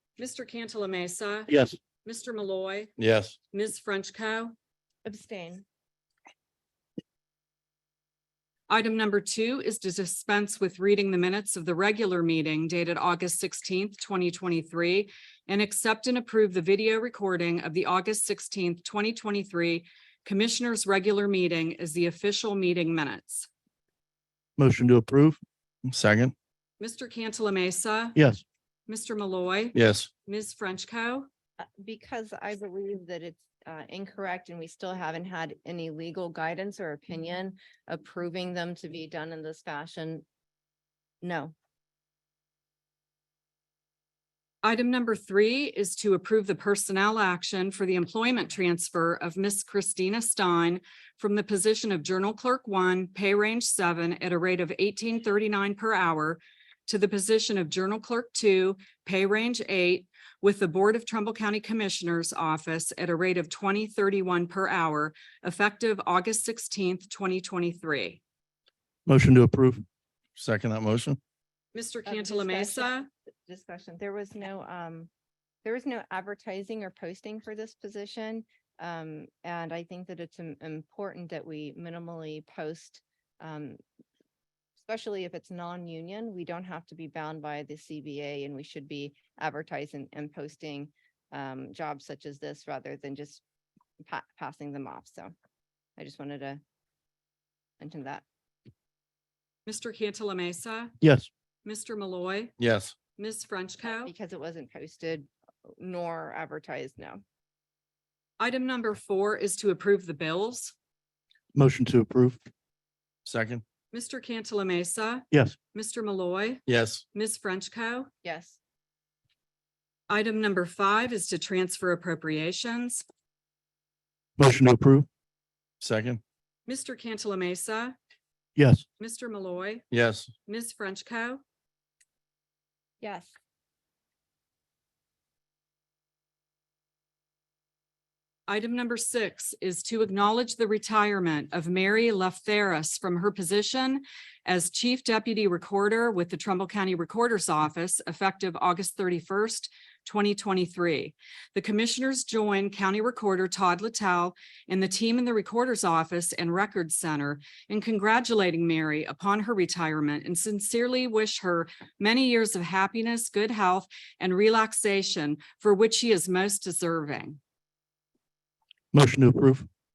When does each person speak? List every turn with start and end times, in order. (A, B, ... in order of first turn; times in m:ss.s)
0:00.2-0:01.5 A
0:01.5-0:01.8 B
0:02.0-0:02.9 A
0:03.0-0:03.4 C
0:03.5-0:04.5 A
0:05.0-0:05.6 D
0:08.7-0:23.5 A
0:24.6-0:25.4 B
0:25.8-0:26.3 C
0:26.8-0:28.2 A
0:28.2-0:28.4 B
0:28.9-0:31.3 A
0:29.7-0:30.1 C
0:31.6-0:40.2 D
0:41.2-0:41.5 D
0:44.6-1:08.2 A
1:09.0-1:09.8 B
1:10.4-1:11.2 C
1:11.7-1:13.1 A
1:12.0-1:15.1 D
1:15.6-1:23.8 D
1:24.8-1:33.4 D
1:34.0-1:35.3 D
1:36.0-1:36.6 D
1:37.8-1:38.2 D
1:39.6-1:40.9 A
1:41.0-1:41.3 B
1:41.6-1:42.5 A
1:42.6-1:42.9 C
1:43.2-1:44.1 A
1:43.9-1:47.2 D
1:48.4-1:50.7 A
1:51.5-1:52.4 B
1:53.2-1:53.6 C
1:53.9-1:58.1 A
1:55.3-1:55.6 B
1:56.7-1:57.0 C
1:58.2-1:58.6 D
2:00.1-2:03.0 A
2:04.4-2:05.1 B
2:05.8-2:06.2 C
2:06.7-2:08.0 A
2:08.6-2:08.8 B
2:09.0-2:09.8 A
2:09.9-2:10.3 C
2:10.4-2:11.4 A
2:13.0-2:13.3 D
2:18.5-2:47.4 A
2:48.9-2:49.7 B